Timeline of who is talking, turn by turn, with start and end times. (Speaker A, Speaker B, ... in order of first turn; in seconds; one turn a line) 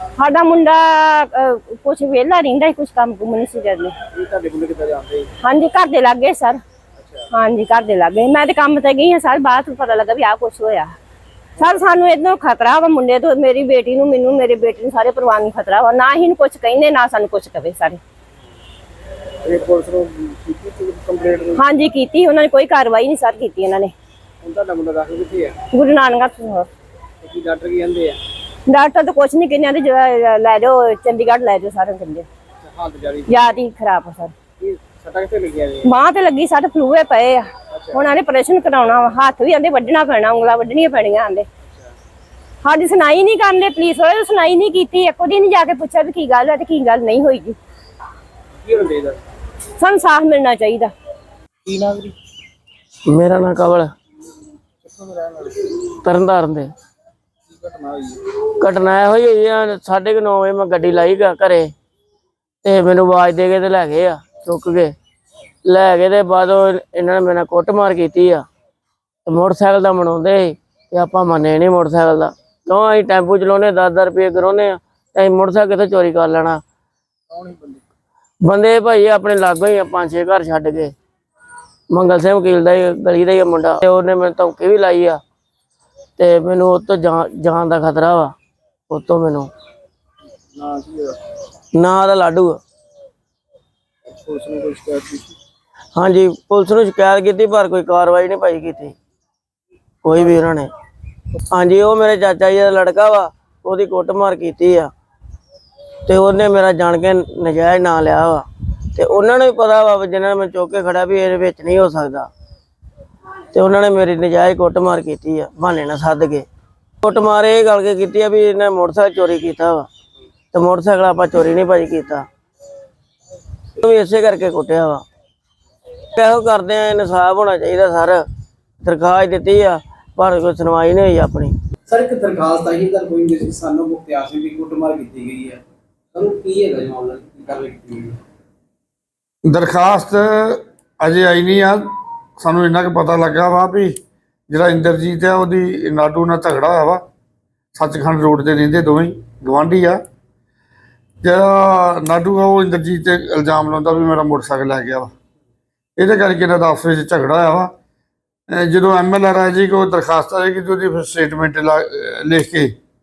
Speaker A: 0.2-3.9
Speaker B: 4.1-5.3
Speaker A: 5.4-6.6
Speaker B: 7.0-7.3
Speaker A: 7.3-10.9
Speaker A: 11.6-18.0
Speaker B: 19.4-21.6
Speaker A: 21.6-23.9
Speaker B: 24.4-25.6
Speaker A: 25.7-26.7
Speaker B: 27.2-28.2
Speaker A: 28.7-32.2
Speaker B: 32.6-33.5
Speaker A: 33.3-34.3
Speaker B: 34.6-35.9
Speaker A: 35.8-41.5
Speaker B: 37.7-38.0
Speaker A: 42.6-47.6
Speaker B: 48.6-49.2
Speaker A: 49.8-50.9
Speaker B: 51.6-52.1
Speaker C: 53.1-53.9
Speaker B: 54.8-55.8
Speaker C: 56.0-56.7
Speaker B: 57.5-58.2
Speaker C: 58.6-61.7
Speaker C: 62.6-64.9
Speaker C: 65.6-68.5
Speaker C: 69.3-76.6
Speaker B: 77.3-77.8
Speaker C: 78.4-80.9
Speaker C: 81.9-85.2
Speaker C: 86.2-88.3
Speaker C: 88.9-89.5
Speaker B: 90.5-91.2
Speaker C: 91.7-92.6
Speaker B: 94.1-95.3
Speaker C: 96.0-98.9
Speaker C: 100.0-100.7
Speaker C: 101.5-104.9
Speaker C: 106.1-112.3
Speaker C: 113.5-116.4
Speaker C: 117.0-119.9
Speaker C: 120.5-122.2
Speaker C: 123.8-125.0
Speaker C: 126.2-128.2
Speaker C: 128.8-131.5
Speaker B: 131.9-135.6
Speaker B: 136.1-138.2
Speaker D: 139.4-144.0
Speaker D: 144.5-147.1
Speaker D: 147.7-150.0
Speaker D: 151.2-155.1
Speaker D: 156.0-157.7
Speaker D: 158.5-162.7